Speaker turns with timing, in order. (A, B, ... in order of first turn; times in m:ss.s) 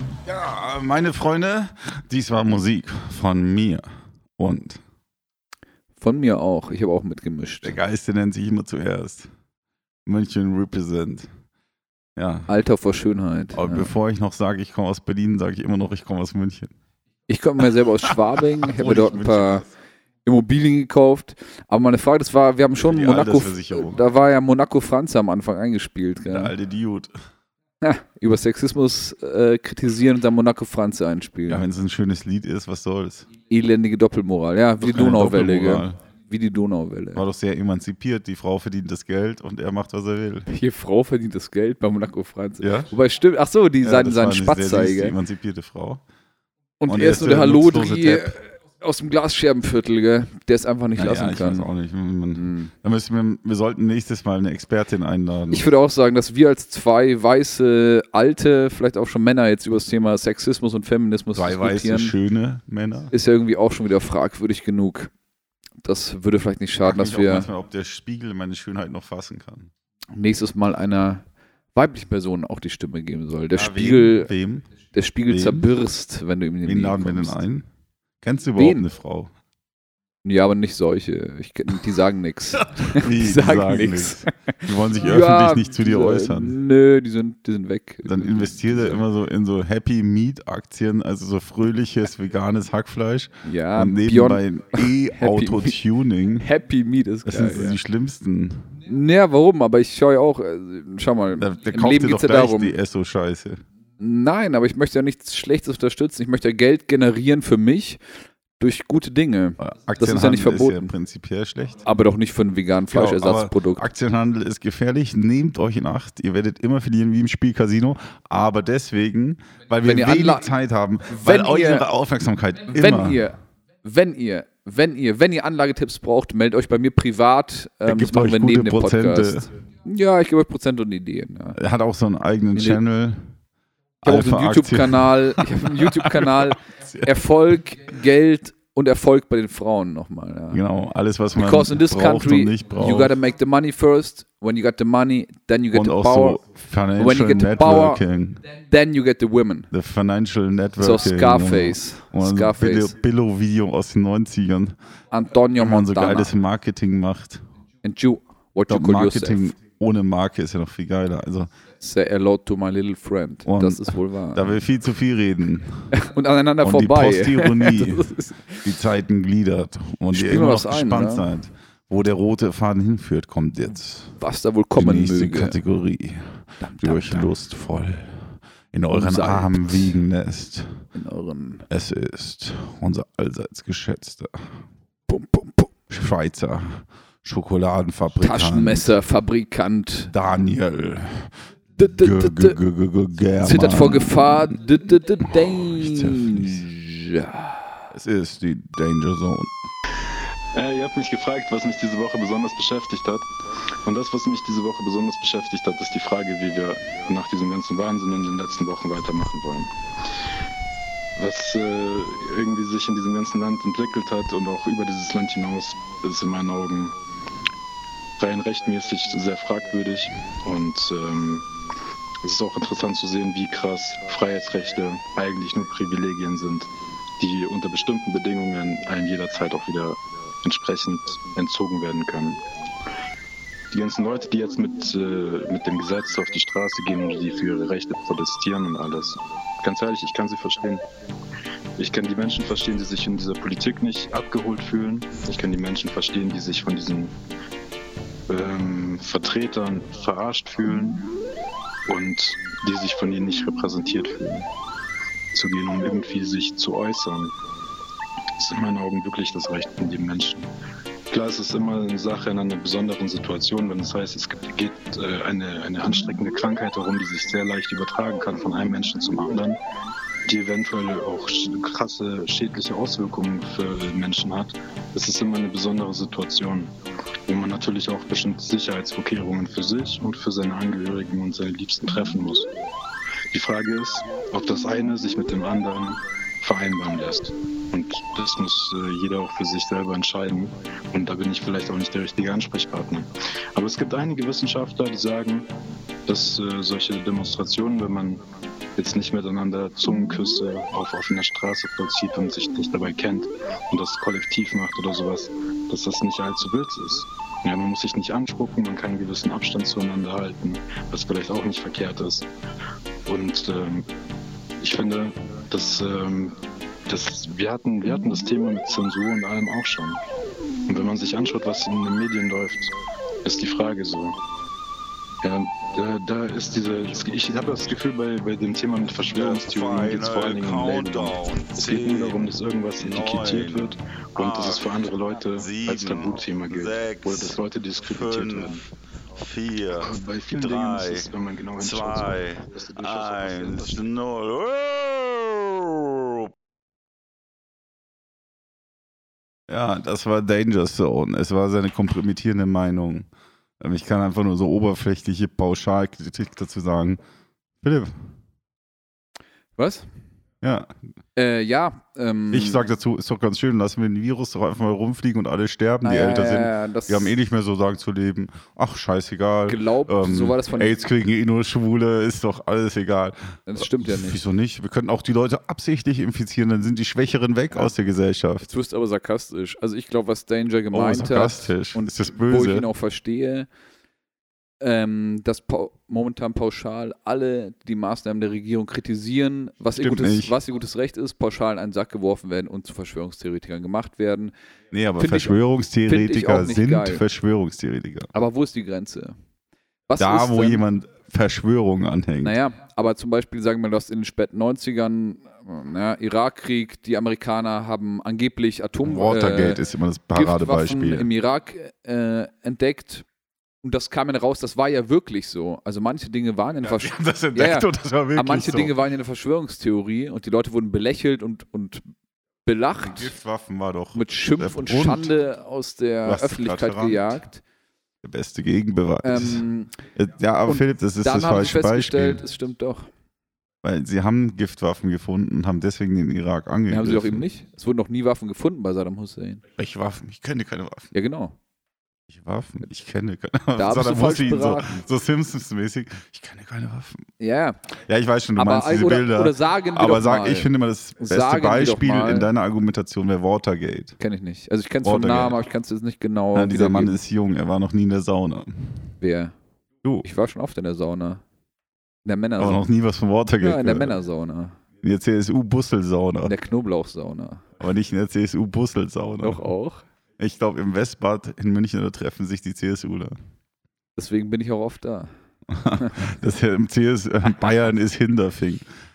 0:00.2-0:03.8 A
0:04.4-0:04.8 A
0:06.0-0:07.8 B
0:07.6-0:09.3 A
0:10.0-0:11.3 A
0:12.2-0:12.5 A
0:12.5-0:13.9 B
0:13.5-0:16.7 A
0:17.3-0:19.6 B
0:18.6-0:19.7 A
0:20.2-0:26.5 B
0:22.8-0:24.0 A
0:26.3-0:27.1 A
0:27.8-0:31.6 B
0:31.5-0:33.3 A
0:33.5-0:37.2 B
0:34.8-0:36.0 A
0:37.1-0:40.5 A
0:40.5-0:45.2 B
0:42.6-0:42.9 A
0:43.8-0:46.0 A
0:46.8-0:51.7 B
0:46.9-0:48.4 A
0:51.0-0:55.7 A
0:52.3-0:52.7 B
0:55.5-1:02.1 B
1:01.3-1:03.1 A
1:03.1-1:05.1 B
1:05.8-1:07.5 B
1:06.8-1:09.7 A
1:10.1-1:14.3 B
1:13.5-1:14.6 A
1:14.9-1:17.4 B
1:15.3-1:15.7 A
1:16.6-1:17.7 A
1:18.2-1:19.3 A
1:18.6-1:18.8 B
1:20.2-1:29.0 B
1:22.8-1:26.6 A
1:28.0-1:36.4 A
1:33.4-1:35.8 B
1:36.4-1:37.8 B
1:37.2-1:38.7 A
1:38.8-1:42.7 B
1:41.4-1:43.6 A
1:44.0-1:48.0 B
1:48.6-1:50.9 B
1:49.6-1:51.8 A
1:51.8-1:53.9 B
1:52.9-2:03.2 A
1:59.8-2:00.5 B
2:01.1-2:01.9 B
2:02.7-2:11.6 B
2:07.8-2:09.5 A
2:11.6-2:13.3 A
2:12.5-2:12.8 B
2:14.0-2:17.1 A
2:14.0-2:20.6 B
2:20.5-2:23.1 A
2:21.4-2:26.4 B
2:25.7-2:28.4 A
2:27.0-2:28.0 B
2:28.5-2:29.7 B
2:29.7-2:34.8 A
2:30.8-2:32.9 B
2:35.1-2:36.3 B
2:35.6-2:37.4 A
2:37.8-2:39.6 B
2:38.7-2:41.5 A
2:41.8-2:44.6 B
2:43.4-2:45.9 A
2:45.9-2:48.7 B
2:46.6-2:48.1 A
2:48.6-2:54.1 A
2:50.1-2:51.3 B
2:54.2-2:55.6 B
2:54.8-3:00.8 A
2:56.6-2:57.3 B
2:58.9-3:00.0 B
3:00.9-3:01.6 B
3:01.7-3:04.5 A
3:05.1-3:05.7 B
3:05.9-3:08.9 A
3:08.2-3:10.1 B
3:10.1-3:11.3 A
3:11.8-3:12.6 B
3:11.9-3:14.5 A
3:13.4-3:17.8 B
3:15.6-3:16.7 A
3:17.9-3:19.5 A
3:20.5-3:23.3 C
3:23.8-3:29.7 C
3:31.2-3:37.0 C
3:38.2-3:41.4 C
3:42.2-3:52.4 C
3:53.7-4:00.8 C
4:01.8-4:07.1 C
4:08.3-4:11.0 C
4:11.9-4:14.4 C
4:15.3-4:17.3 C
4:18.4-4:20.5 C
4:21.1-4:29.6 C
4:30.2-4:36.7 C
4:37.3-4:42.5 C
4:43.3-4:55.5 C
4:56.1-4:58.2 C
4:58.8-5:12.3 C
5:13.1-5:13.9 C
5:14.6-5:16.4 C
5:16.9-5:20.0 C
5:20.7-5:24.2 C
5:25.2-5:38.6 C
5:29.0-5:34.7 A
5:35.3-5:38.6 A
5:39.2-5:46.3 A
5:39.8-5:43.8 C
5:49.5-5:53.1 A
5:53.6-5:57.0 A
5:57.6-5:57.9 A
5:59.6-5:59.9 B
6:00.4-6:00.7 A
6:01.2-6:02.6 B
6:02.3-6:18.5 A
6:05.8-6:07.1 B
6:09.5-6:10.8 B
6:13.5-6:14.2 B
6:18.4-6:23.5 B
6:20.7-6:22.7 A
6:24.6-6:34.3 B
6:29.8-6:30.4 A
6:34.7-6:38.1 A
6:35.0-6:37.0 B
6:38.1-6:39.2 B
6:39.9-6:40.6 B
6:40.0-6:42.4 A
6:42.2-6:49.6 B
6:48.8-6:51.1 A
6:50.1-6:53.0 B
6:53.6-7:01.8 B
6:56.6-6:58.7 A
7:02.4-7:03.1 B
7:02.8-7:05.1 A
7:03.9-7:07.4 B
7:06.0-7:07.1 A
7:08.0-7:09.4 A
7:09.0-7:09.7 B
7:09.9-7:12.2 A
7:10.4-7:12.9 B
7:13.6-7:17.2 A
7:16.7-7:19.4 B
7:19.6-7:20.9 A
7:20.9-7:21.4 B
7:22.1-7:27.0 A
7:23.6-7:24.8 B
7:27.2-7:27.6 B
7:27.9-7:33.9 A
7:28.4-7:32.3 B
7:34.0-7:37.0 B
7:34.8-7:35.4 A
7:36.3-7:38.5 A
7:39.0-7:39.3 B
7:40.0-7:41.2 B
7:42.0-7:42.6 B
7:42.4-7:44.0 A
7:43.4-7:44.6 B
7:44.8-7:46.3 A
7:46.2-7:47.4 B
7:47.6-7:49.4 A
7:49.2-7:49.8 B
7:50.2-7:53.2 A
7:54.0-7:55.1 B
7:55.5-7:58.6 A
7:55.8-7:56.1 B